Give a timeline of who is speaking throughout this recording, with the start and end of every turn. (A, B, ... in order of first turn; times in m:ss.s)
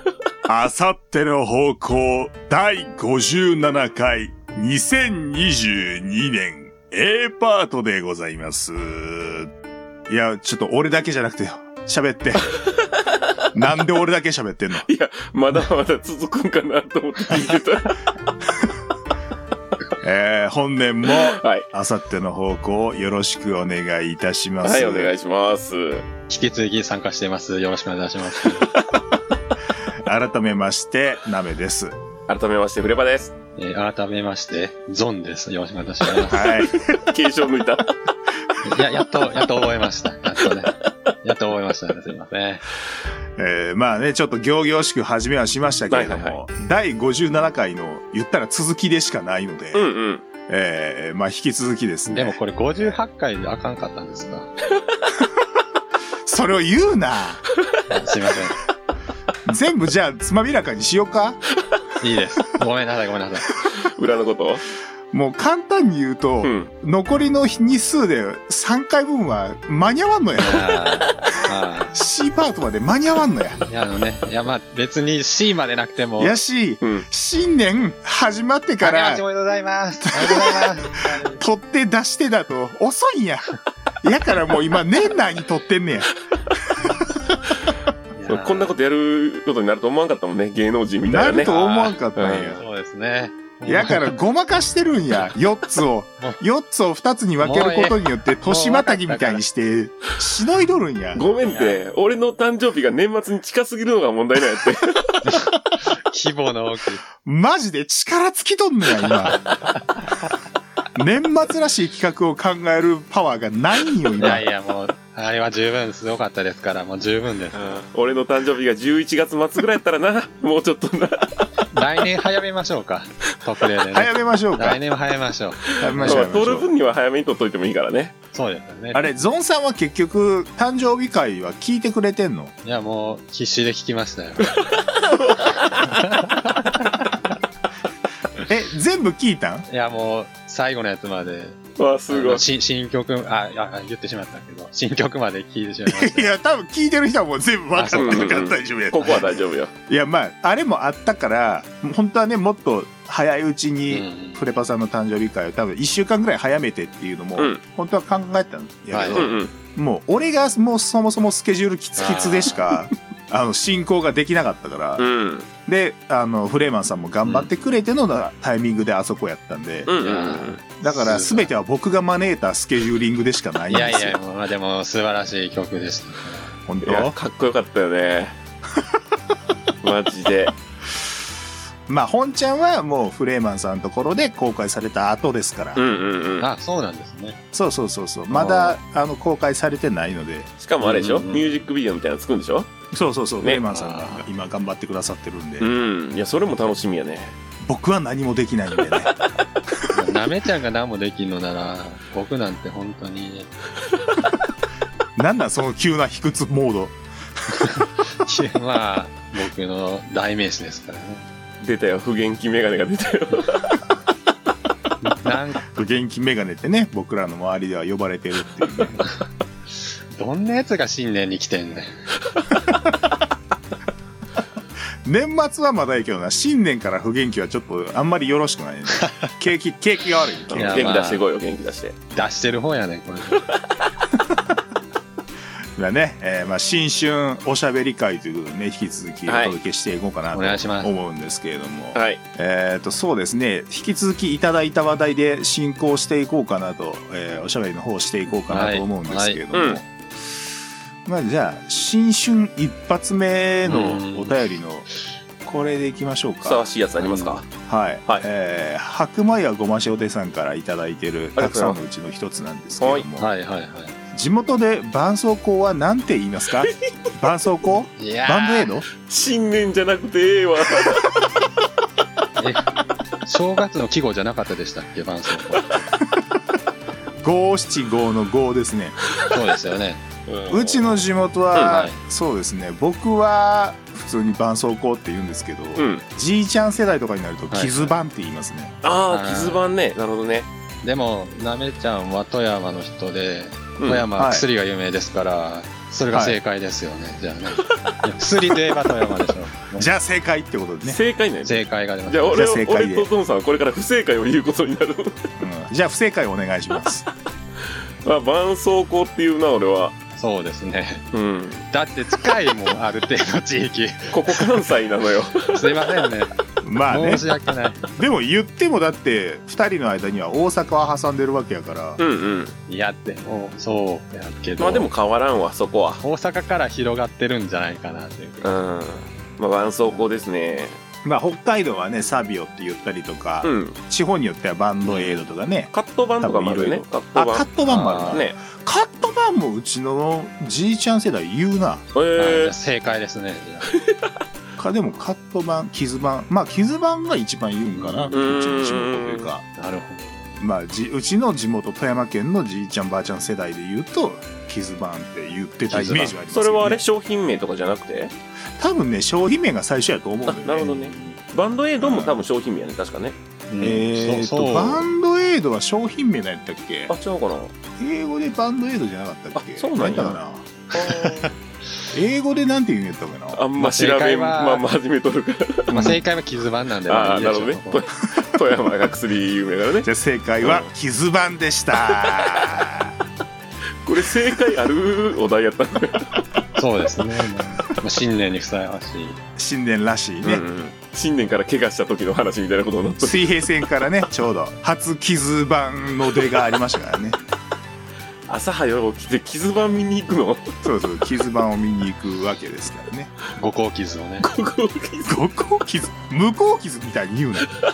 0:00.5-0:09.5 A
0:10.1-0:12.6 A
0:13.5-0:14.9 A
0:14.9-0:17.9 B
0:20.0-0:25.1 A
0:21.1-0:21.7 B
0:24.6-0:26.1 B
0:26.3-0:28.7 C
0:30.0-0:32.0 A
0:32.3-0:33.4 B
0:33.6-0:36.4 C
0:36.3-0:36.9 A
0:36.4-0:37.9 B
0:38.6-0:42.6 C
0:43.4-0:49.9 A
0:45.9-0:46.4 B
0:49.7-0:50.2 B
0:50.5-0:52.4 A
0:52.1-0:54.5 C
0:56.3-0:57.4 A
0:57.9-0:58.6 C
0:59.5-1:01.4 A
1:02.0-1:03.5 C
1:03.8-1:04.6 B
1:05.1-1:10.6 A
1:06.4-1:06.7 B
1:10.4-1:12.0 C
1:11.9-1:13.6 A
1:13.7-1:16.4 C
1:16.2-1:19.2 A
1:18.8-1:21.4 C
1:20.1-1:23.5 A
1:24.0-1:26.1 A
1:26.9-1:27.3 A
1:28.2-1:28.7 C
1:28.3-1:31.6 B
1:31.1-1:32.6 A
1:31.5-1:31.9 C
1:32.2-1:32.6 B
1:32.6-1:34.2 C
1:33.7-1:41.2 A
1:37.4-1:39.4 C
1:41.2-1:45.0 B
1:41.5-1:41.8 C
1:45.2-1:47.0 C
1:47.2-1:49.4 A
1:51.0-1:54.4 A
1:54.2-1:57.8 C
1:57.5-2:01.3 B
2:01.7-2:06.2 C
2:03.9-2:04.8 A
2:05.8-2:06.7 A
2:06.0-2:08.2 B
2:08.3-2:09.1 C
2:08.9-2:12.5 A
2:12.6-2:14.5 C
2:14.7-2:15.7 B
2:15.8-2:17.0 C
2:18.4-2:19.7 A
2:19.7-2:26.3 C
2:21.8-2:22.4 B
2:25.9-2:29.3 A
2:27.8-2:28.4 C
2:28.0-2:29.7 B
2:29.9-2:45.1 A
2:33.9-2:34.4 C
2:38.9-2:39.2 C
2:39.1-2:39.5 B
2:42.0-2:42.6 C
2:45.0-2:45.5 B
2:45.7-2:49.9 A
2:49.9-2:50.6 B
2:50.0-2:51.5 C
2:50.8-2:54.2 A
2:53.7-2:56.6 C
2:56.7-2:57.2 A
2:56.8-2:58.4 B
2:59.8-3:00.5 B
3:01.9-3:05.8 A
3:05.8-3:06.5 B
3:06.4-3:07.4 C
3:07.5-3:10.5 A
3:08.3-3:08.8 C
3:10.6-3:12.7 B
3:10.8-3:11.5 C
3:12.9-3:15.7 A
3:13.7-3:14.3 C
3:15.6-3:17.4 B
3:17.6-3:19.1 A
3:19.9-3:23.5 C
3:25.2-3:27.0 A
3:27.6-3:31.3 C
3:31.6-3:33.8 B
3:35.0-3:35.6 C
3:35.7-3:39.0 A
3:40.1-3:42.0 C
3:45.0-3:50.8 A
3:50.5-3:51.2 C
3:50.6-3:52.0 B
3:52.1-3:53.4 C
3:55.8-4:09.9 A
3:59.3-3:59.6 B
4:00.3-4:00.9 C
4:02.0-4:02.2 B
4:08.5-4:09.4 C
4:09.5-4:09.8 B
4:11.0-4:14.9 A
4:13.7-4:14.4 C
4:15.4-4:16.6 A
4:16.4-4:17.5 B
4:17.0-4:17.4 C
4:17.6-4:23.3 A
4:21.4-4:21.8 B
4:23.2-4:24.0 C
4:24.1-4:28.9 A
4:28.0-4:28.7 C
4:29.0-4:31.1 B
4:32.4-4:32.7 C
4:33.2-4:35.7 C
4:37.2-4:39.0 A
4:39.3-4:40.0 C
4:40.3-4:40.9 B
4:40.5-4:48.8 A
4:41.5-4:41.8 B
4:41.6-4:42.0 C
4:45.8-4:46.0 B
4:47.5-4:47.9 C
4:48.8-4:50.5 B
4:49.1-4:49.6 C
4:50.8-4:59.9 C
4:53.8-4:54.1 B
4:54.2-4:54.4 A
4:56.1-4:56.4 A
4:59.8-5:01.0 A
5:00.8-5:05.3 B
5:01.5-5:02.4 C
5:02.3-5:03.1 A
5:05.4-5:07.1 A
5:08.0-5:10.0 B
5:10.2-5:11.1 C
5:11.1-5:11.6 B
5:11.7-5:14.5 C
5:14.1-5:15.8 B
5:15.5-5:16.3 C
5:16.6-5:17.2 A
5:16.9-5:17.8 C
5:18.0-5:22.0 A
5:22.0-5:22.6 B
5:22.7-5:24.9 C
5:24.6-5:26.0 B
5:26.0-5:28.5 C
5:28.4-5:30.8 B
5:31.0-5:41.8 A
5:33.4-5:33.8 B
5:34.9-5:35.2 B
5:35.7-5:37.5 B
5:37.7-5:38.2 C
5:38.1-5:38.4 B
5:41.9-5:42.6 B
5:42.2-5:43.7 C
5:44.6-5:49.5 A
5:47.7-5:48.1 C
5:48.1-5:49.3 B
5:49.6-5:50.3 C
5:50.4-5:56.8 A
5:55.7-5:56.2 C
5:56.3-5:58.1 B
5:58.6-6:00.8 A
6:00.3-6:03.2 B
6:00.9-6:01.2 C
6:01.8-6:02.2 A
6:03.5-6:04.9 C
6:03.6-6:06.9 A
6:06.9-6:07.5 B
6:07.8-6:11.2 A
6:09.4-6:10.2 B
6:10.8-6:11.2 B
6:11.9-6:13.4 A
6:13.3-6:15.8 B
6:13.6-6:14.6 C
6:15.7-6:17.8 C
6:16.9-6:19.9 B
6:19.8-6:22.9 A
6:20.4-6:20.7 B
6:22.0-6:22.7 B
6:23.8-6:26.1 B
6:26.6-6:29.2 C
6:29.4-6:30.4 A
6:30.2-6:33.3 B
6:33.0-6:37.2 A
6:38.3-6:40.6 B
6:40.6-6:43.1 A
6:43.4-6:44.3 C
6:44.2-6:45.2 B
6:45.1-6:47.5 A